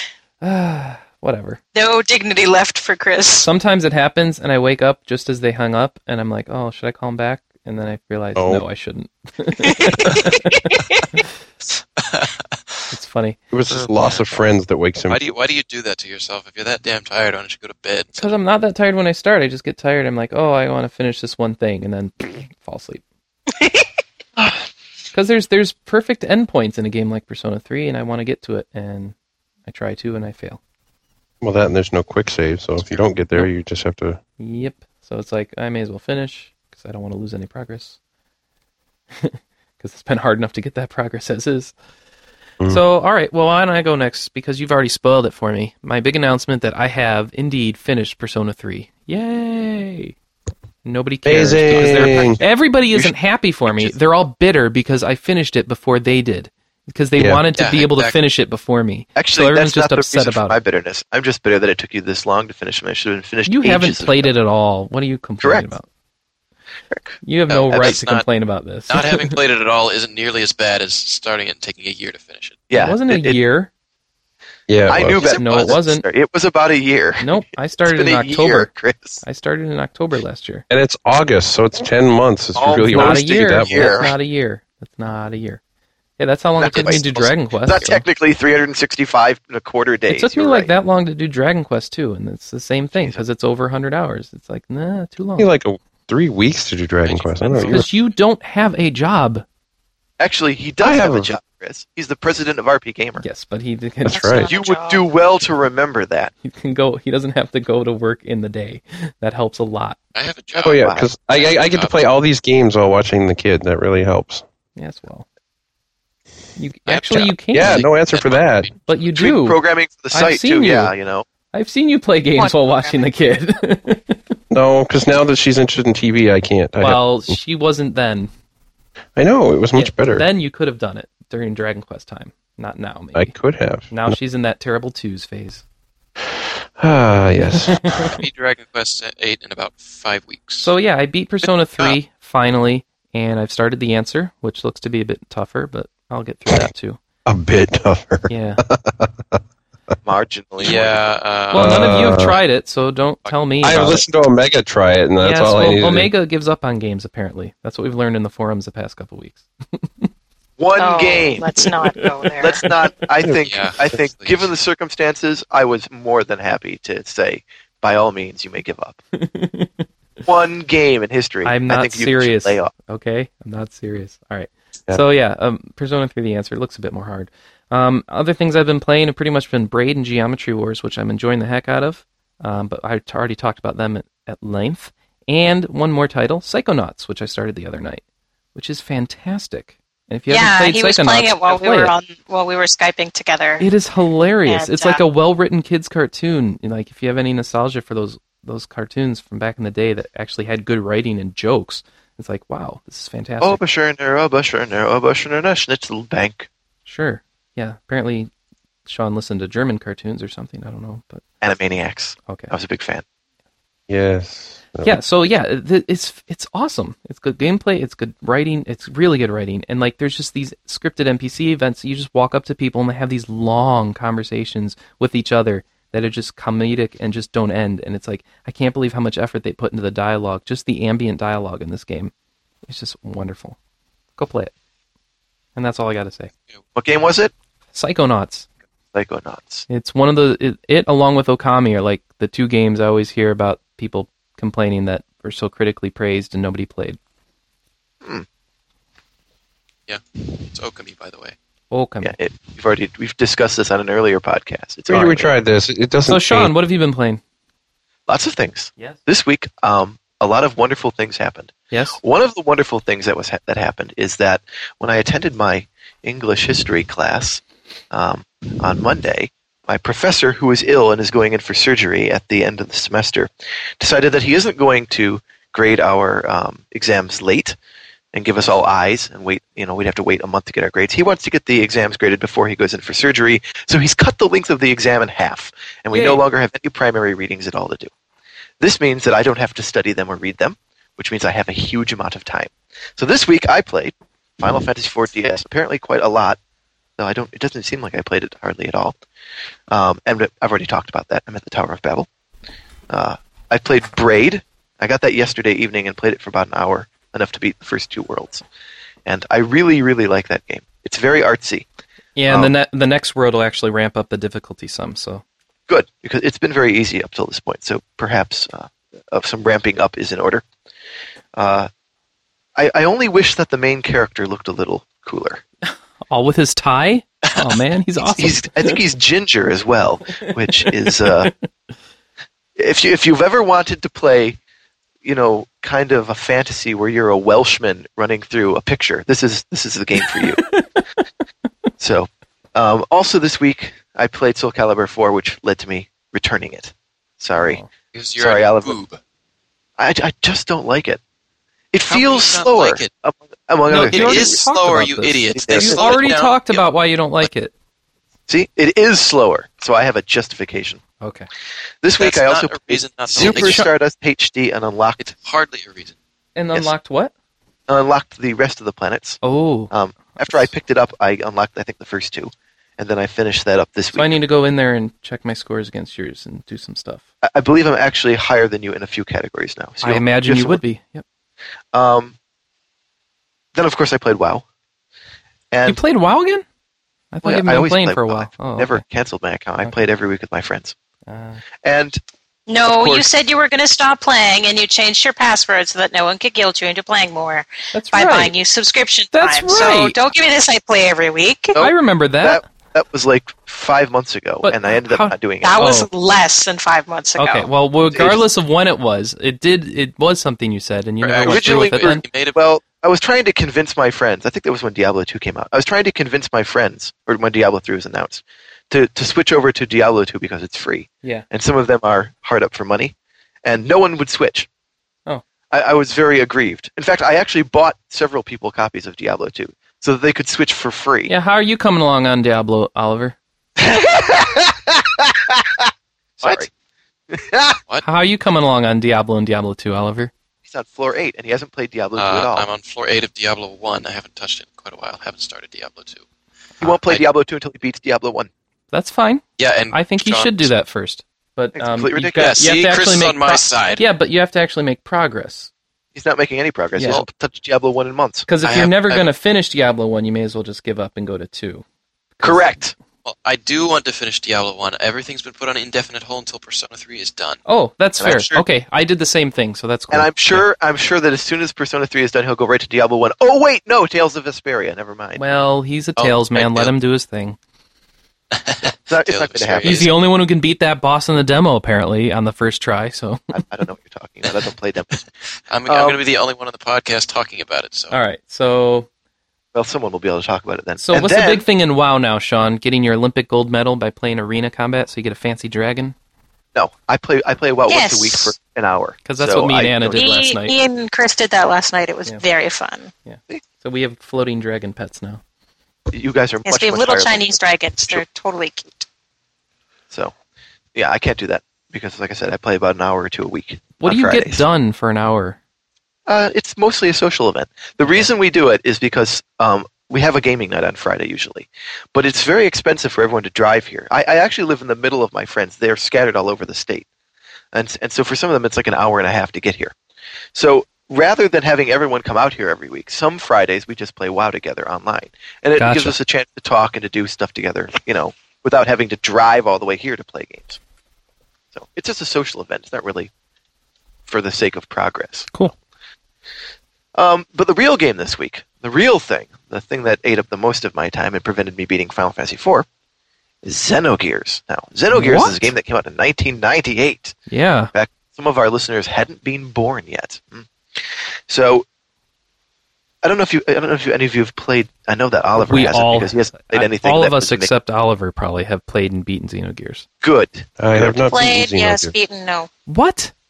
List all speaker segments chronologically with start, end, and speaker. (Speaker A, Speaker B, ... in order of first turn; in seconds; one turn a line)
Speaker A: 0.4-1.6
Speaker B: 1.7-3.5
Speaker A: 3.4-10.6
Speaker C: 8.3-8.7
Speaker B: 9.6-11.0
Speaker D: 12.0-12.6
Speaker A: 12.9-13.4
Speaker C: 13.5-15.2
Speaker D: 13.7-14.4
Speaker D: 15.1-18.3
Speaker A: 18.2-23.0
Speaker B: 23.6-23.8
Speaker A: 25.1-29.1
Speaker A: 29.6-30.6
Speaker C: 31.4-34.2
Speaker A: 34.4-38.0
Speaker A: 39.2-41.7
Speaker A: 42.7-50.1
Speaker A: 50.8-60.6
Speaker C: 51.2-52.4
Speaker C: 57.2-57.4
Speaker D: 57.5-58.1
Speaker E: 59.1-64.3
Speaker A: 63.5-65.9
Speaker E: 65.4-65.7
Speaker E: 66.9-67.2
Speaker A: 67.2-69.4
Speaker D: 67.5-68.2
Speaker E: 67.7-68.0
Speaker D: 68.9-72.7
Speaker E: 72.7-73.4
Speaker A: 72.7-73.7
Speaker C: 74.7-75.2
Speaker E: 74.9-79.2
Speaker D: 75.1-75.8
Speaker A: 75.2-76.0
Speaker A: 77.2-78.7
Speaker A: 79.2-80.6
Speaker C: 80.7-84.0
Speaker E: 82.5-84.1
Speaker A: 82.9-85.6
Speaker A: 86.2-88.0
Speaker E: 86.5-90.7
Speaker D: 86.6-87.3
Speaker A: 90.1-95.5
Speaker E: 92.9-93.2
Speaker C: 95.4-97.9
Speaker D: 97.0-98.0
Speaker A: 97.6-99.4
Speaker E: 100.2-103.2
Speaker C: 100.8-101.4
Speaker A: 103.2-104.4
Speaker C: 104.0-104.5
Speaker B: 104.1-105.0
Speaker E: 104.5-106.3
Speaker A: 106.4-110.0
Speaker D: 110.1-111.9
Speaker C: 110.6-114.4
Speaker E: 110.7-111.1
Speaker A: 114.8-115.2
Speaker A: 116.6-117.9
Speaker D: 116.9-118.9
Speaker C: 117.5-118.7
Speaker A: 118.8-119.6
Speaker E: 119.1-121.2
Speaker A: 120.1-120.9
Speaker A: 121.5-124.2
Speaker B: 122.4-123.0
Speaker C: 124.5-127.3
Speaker A: 126.8-128.3
Speaker C: 129.2-130.3
Speaker A: 129.7-133.3
Speaker C: 133.1-134.2
Speaker A: 133.9-135.6
Speaker C: 136.3-138.1
Speaker A: 137.6-138.1
Speaker D: 138.0-140.7
Speaker A: 140.6-147.0
Speaker D: 141.4-141.9
Speaker C: 147.2-149.4
Speaker A: 148.3-148.6
Speaker E: 150.0-151.1
Speaker D: 150.6-152.2
Speaker A: 151.5-154.0
Speaker C: 151.5-152.4
Speaker D: 153.2-153.8
Speaker C: 153.6-156.1
Speaker A: 155.2-160.1
Speaker E: 160.6-161.5
Speaker B: 160.8-162.6
Speaker E: 162.4-169.0
Speaker D: 163.4-164.5
Speaker A: 169.1-169.8
Speaker E: 170.2-172.7
Speaker A: 171.4-188.0
Speaker A: 188.5-191.9
Speaker B: 190.3-193.7
Speaker A: 193.6-203.6
Speaker B: 194.4-195.0
Speaker E: 203.4-206.5
Speaker A: 206.8-208.3
Speaker A: 208.8-211.2
Speaker E: 211.4-213.0
Speaker A: 212.2-212.5
Speaker C: 213.9-215.0
Speaker A: 214.8-232.1
Speaker A: 232.7-233.6
Speaker A: 234.2-234.5
Speaker A: 235.6-236.3
Speaker E: 236.8-237.3
Speaker A: 237.7-238.5
Speaker E: 238.9-239.7
Speaker A: 239.7-247.0
Speaker D: 249.9-251.3
Speaker A: 251.7-252.1
Speaker E: 252.0-255.3
Speaker C: 254.9-256.5
Speaker A: 256.1-257.2
Speaker E: 258.1-277.6
Speaker A: 261.7-262.0
Speaker E: 278.1-287.9
Speaker A: 285.9-286.2
Speaker E: 288.6-296.4
Speaker E: 297.0-298.9
Speaker E: 299.7-302.1
Speaker E: 302.9-308.4
Speaker E: 309.1-311.6
Speaker A: 312.1-315.2
Speaker E: 312.3-312.5
Speaker E: 315.7-320.4
Speaker E: 321.3-321.7
Speaker E: 322.6-325.4
Speaker A: 325.7-328.8
Speaker E: 328.0-331.3
Speaker A: 330.7-331.3
Speaker E: 332.6-334.4
Speaker E: 335.0-340.4
Speaker A: 340.0-340.8
Speaker E: 341.8-347.6
Speaker A: 347.4-347.7
Speaker D: 347.9-349.0
Speaker E: 348.2-348.8
Speaker E: 349.8-351.0
Speaker E: 351.7-354.4
Speaker D: 351.9-352.9
Speaker A: 353.7-357.5
Speaker D: 353.8-356.6
Speaker E: 355.3-356.2
Speaker E: 358.3-360.8
Speaker A: 361.0-361.3
Speaker E: 361.8-365.1
Speaker D: 362.0-363.7
Speaker A: 363.2-363.7
Speaker D: 365.0-365.9
Speaker A: 366.4-367.1
Speaker E: 367.7-369.2
Speaker A: 369.2-370.4
Speaker E: 369.7-374.2
Speaker A: 373.9-377.0
Speaker E: 377.2-380.6
Speaker A: 379.8-381.0
Speaker E: 381.7-382.1
Speaker E: 383.5-384.4
Speaker E: 385.5-385.8
Speaker A: 385.6-386.4
Speaker A: 387.1-388.8
Speaker E: 387.2-390.7
Speaker A: 391.1-391.4
Speaker E: 391.6-392.0
Speaker B: 392.5-401.6
Speaker E: 392.6-393.1
Speaker A: 397.7-398.3
Speaker A: 399.1-399.9
Speaker E: 401.5-405.7
Speaker A: 401.6-402.4
Speaker A: 404.4-405.9
Speaker B: 405.4-407.5
Speaker A: 407.1-412.0
Speaker E: 407.8-408.2
Speaker D: 411.0-412.4
Speaker E: 411.2-424.5
Speaker E: 425.5-431.1
Speaker A: 431.1-433.1
Speaker E: 433.6-435.4
Speaker E: 436.2-436.5
Speaker E: 437.1-437.6
Speaker A: 437.8-440.1
Speaker E: 440.4-442.5
Speaker D: 441.9-446.0
Speaker D: 446.6-447.1
Speaker E: 446.6-448.3
Speaker A: 448.7-455.5
Speaker D: 449.4-450.5
Speaker E: 451.5-452.4
Speaker D: 452.1-453.8
Speaker E: 455.9-458.3
Speaker A: 456.8-457.1
Speaker A: 458.3-461.6
Speaker D: 458.4-459.1
Speaker A: 462.2-462.6
Speaker E: 462.2-462.7
Speaker D: 463.0-467.4
Speaker A: 467.4-470.4
Speaker E: 468.0-468.4
Speaker E: 469.9-475.5
Speaker A: 475.1-477.4
Speaker D: 476.0-476.7
Speaker D: 478.3-479.9
Speaker E: 478.9-479.9
Speaker A: 479.6-483.3
Speaker E: 483.3-485.0
Speaker D: 485.5-487.9
Speaker E: 485.6-486.0
Speaker A: 487.9-488.9
Speaker E: 489.5-491.4
Speaker A: 490.8-495.9
Speaker E: 496.5-500.2
Speaker B: 497.7-498.3
Speaker A: 499.0-500.5
Speaker B: 499.9-502.9
Speaker A: 503.1-505.2
Speaker E: 505.9-508.0
Speaker B: 506.4-508.9
Speaker E: 510.7-514.4
Speaker A: 513.8-515.4
Speaker E: 516.1-526.9
Speaker E: 527.5-529.7
Speaker E: 530.3-540.6
Speaker A: 535.6-536.0
Speaker E: 541.5-543.1
Speaker E: 544.1-545.3
Speaker E: 546.9-552.6
Speaker E: 553.4-557.1
Speaker A: 554.9-555.5
Speaker A: 557.3-557.7
Speaker E: 557.7-561.6
Speaker E: 563.0-567.5
Speaker A: 565.4-569.9
Speaker E: 570.0-571.1
Speaker C: 570.6-571.9
Speaker B: 571.1-572.5
Speaker A: 572.7-573.1